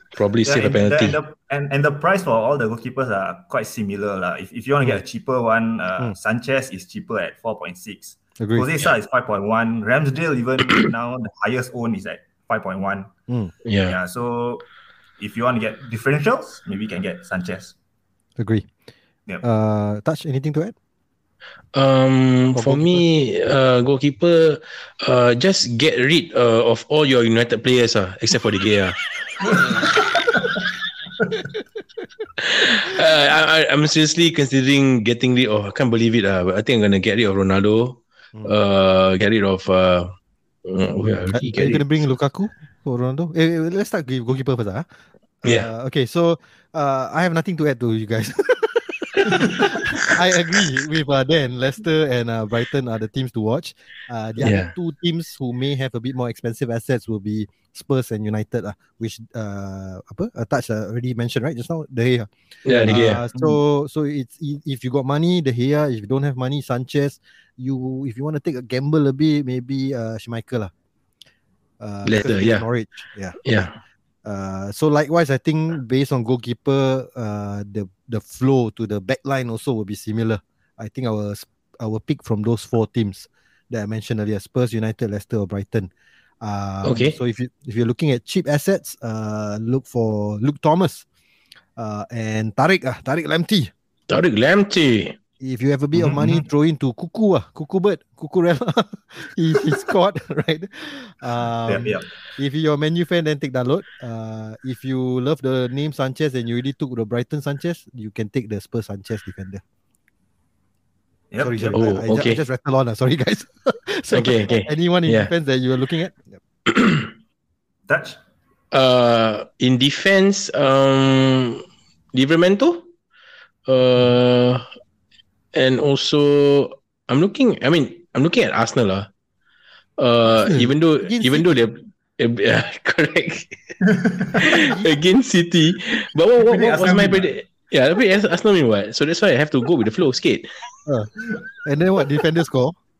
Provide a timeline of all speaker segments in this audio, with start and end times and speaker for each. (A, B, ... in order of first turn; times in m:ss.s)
0:00.1-0:01.2 A
0:00.4-0:13.1 B
0:08.4-0:08.7 C
0:13.6-0:14.0 A
0:13.8-0:14.6 B
0:15.2-0:17.8 B
0:18.4-0:18.7 C
0:19.4-0:20.8 C
0:21.7-0:29.9 A
0:22.5-0:23.0 C
0:32.4-0:40.1 A
0:40.6-0:42.0 A
0:41.3-0:44.8 C
0:45.4-1:02.3 C
0:45.4-0:45.7 A
0:49.2-0:49.6 A
0:54.4-0:54.7 A
1:02.6-1:03.5 A
1:02.8-1:10.7 C
1:11.8-1:13.4 C
1:12.0-1:12.6 A
1:13.4-1:13.7 A
1:14.2-1:25.9 C
1:26.4-1:31.0 C
1:26.8-1:27.2 A
1:31.8-1:33.7 C
1:34.1-1:35.2 A
1:35.4-1:49.6 C
1:35.9-1:36.5 B
1:41.6-1:42.1 B
1:51.3-1:52.0 B
1:51.4-1:56.4 C
1:51.7-1:52.4 A
1:54.1-1:55.3 A
1:56.7-1:57.1 A
1:57.9-1:58.2 B
1:58.7-2:02.9 A
2:03.6-2:04.6 A
2:05.5-2:09.1 A
2:10.0-2:13.6 A
2:10.3-2:11.5 C
2:13.9-2:14.5 B
2:14.3-2:20.5 A
2:14.4-2:14.9 C
2:16.4-2:17.3 B
2:20.8-2:21.1 C
2:21.6-2:22.8 C